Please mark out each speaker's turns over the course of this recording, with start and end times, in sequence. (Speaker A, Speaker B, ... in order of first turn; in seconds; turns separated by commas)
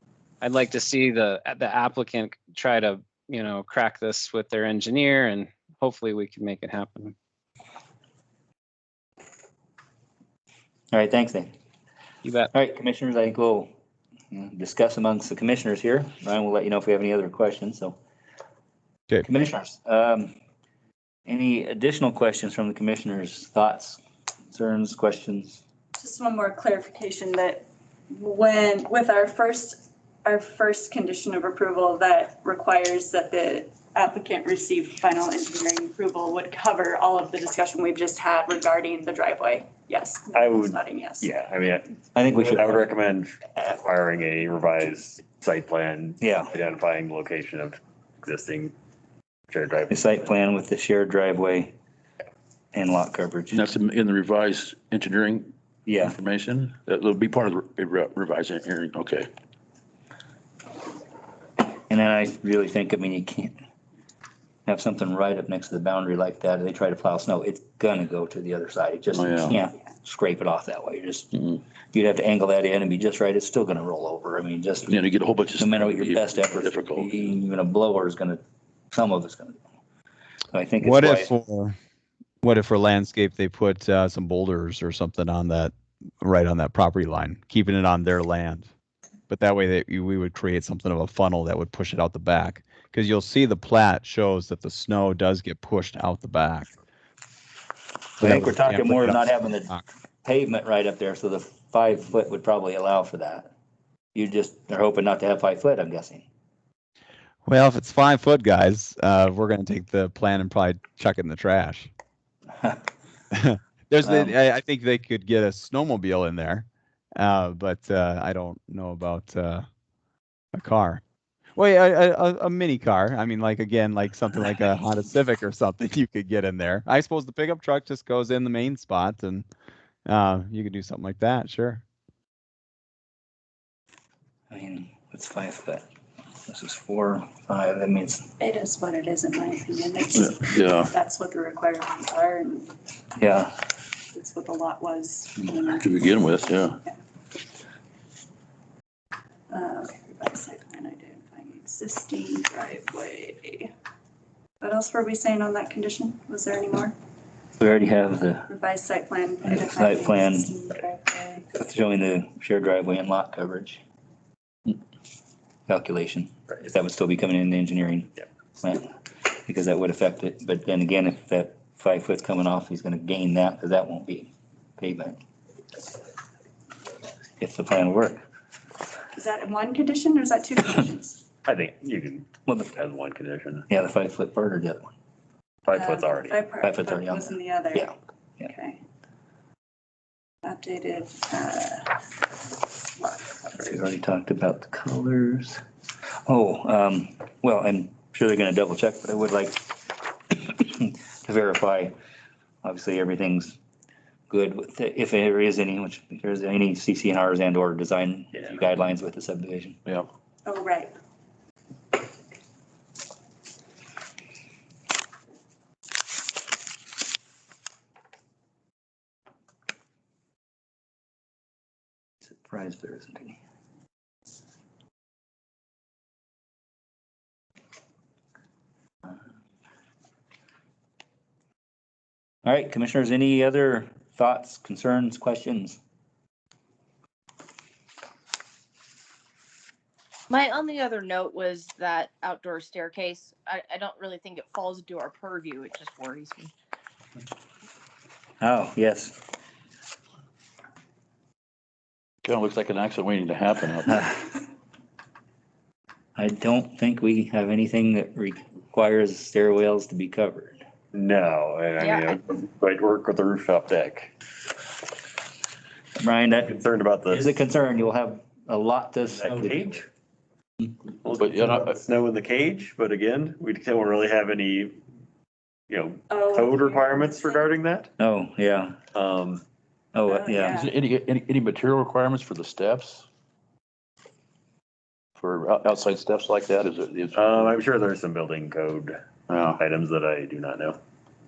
Speaker A: 0.4-7.2, Speaker B: 10.9-11.5, Speaker A: 12.2-12.5, Speaker B: 12.5-13.7, Speaker B: 14.3-18.0, Speaker B: 19.2-20.3, Speaker B: 21.3-25.6, Speaker C: 26.0-41.3, Speaker D: 40.3-48.7, Speaker B: 42.1-42.8, Speaker B: 46.2-46.5, Speaker D: 49.5-50.4, Speaker B: 49.9-51.7, Speaker B: 52.7-53.7, Speaker E: 53.5-59.3, Speaker B: 55.9-56.1, Speaker B: 61.9-63.6, Speaker B: 64.7-71.3, Speaker E: 69.1-69.6, Speaker B: 71.9-75.0, Speaker E: 74.9-77.1, Speaker B: 75.5-79.6, Speaker B: 80.5-81.3, Speaker F: 80.8-81.7, Speaker F: 82.4-88.7, Speaker F: 89.3-96.7, Speaker B: 98.2-99.7, Speaker F: 98.2-99.8, Speaker B: 100.2-103.5, Speaker B: 104.1-106.2, Speaker F: 107.4-111.9, Speaker F: 113.3-116.6, Speaker B: 114.0-114.3, Speaker F: 117.2-119.6, Speaker F: 120.5-121.0, Speaker F: 121.5-129.5, Speaker F: 130.1-131.8, Speaker B: 134.5-135.8, Speaker B: 136.5-138.3, Speaker C: 138.4-142.7, Speaker E: 140.2-140.9, Speaker B: 143.2-143.6, Speaker C: 144.1-147.0, Speaker E: 145.7-146.8, Speaker C: 149.5-153.7, Speaker C: 154.6-156.9, Speaker B: 157.6-158.5, Speaker C: 158.5-161.5, Speaker B: 159.5-160.5, Speaker B: 161.5-163.8, Speaker B: 165.7-175.2, Speaker B: 177.4-178.2, Speaker C: 179.2-181.2, Speaker D: 181.5-183.7, Speaker B: 182.5-182.7, Speaker B: 183.7-184.9, Speaker D: 185.7-186.4, Speaker C: 185.7-188.8, Speaker B: 186.6-187.9, Speaker C: 190.4-192.1, Speaker C: 193.0-193.5, Speaker B: 193.5-195.6, Speaker B: 196.3-199.8, Speaker B: 200.3-201.9, Speaker B: 202.6-203.6, Speaker B: 204.3-209.8, Speaker C: 210.4-210.9, Speaker B: 222.2-223.4, Speaker B: 232.4-235.8, Speaker G: 240.3-246.5, Speaker B: 248.4-249.2, Speaker E: 252.2-254.1, Speaker B: 256.2-260.6, Speaker D: 260.9-264.1, Speaker G: 261.8-262.2, Speaker B: 266.0-266.5, Speaker D: 266.4-267.4, Speaker B: 267.1-269.9, Speaker D: 269.1-269.9, Speaker D: 271.0-274.8, Speaker E: 271.1-271.8, Speaker D: 275.7-277.9, Speaker C: 276.1-277.5, Speaker B: 278.0-278.8, Speaker D: 278.9-279.4, Speaker B: 279.9-280.7, Speaker C: 280.1-280.7, Speaker E: 280.6-283.1, Speaker E: 285.2-287.6, Speaker D: 287.1-288.9, Speaker E: 289.3-289.6, Speaker D: 289.4-290.8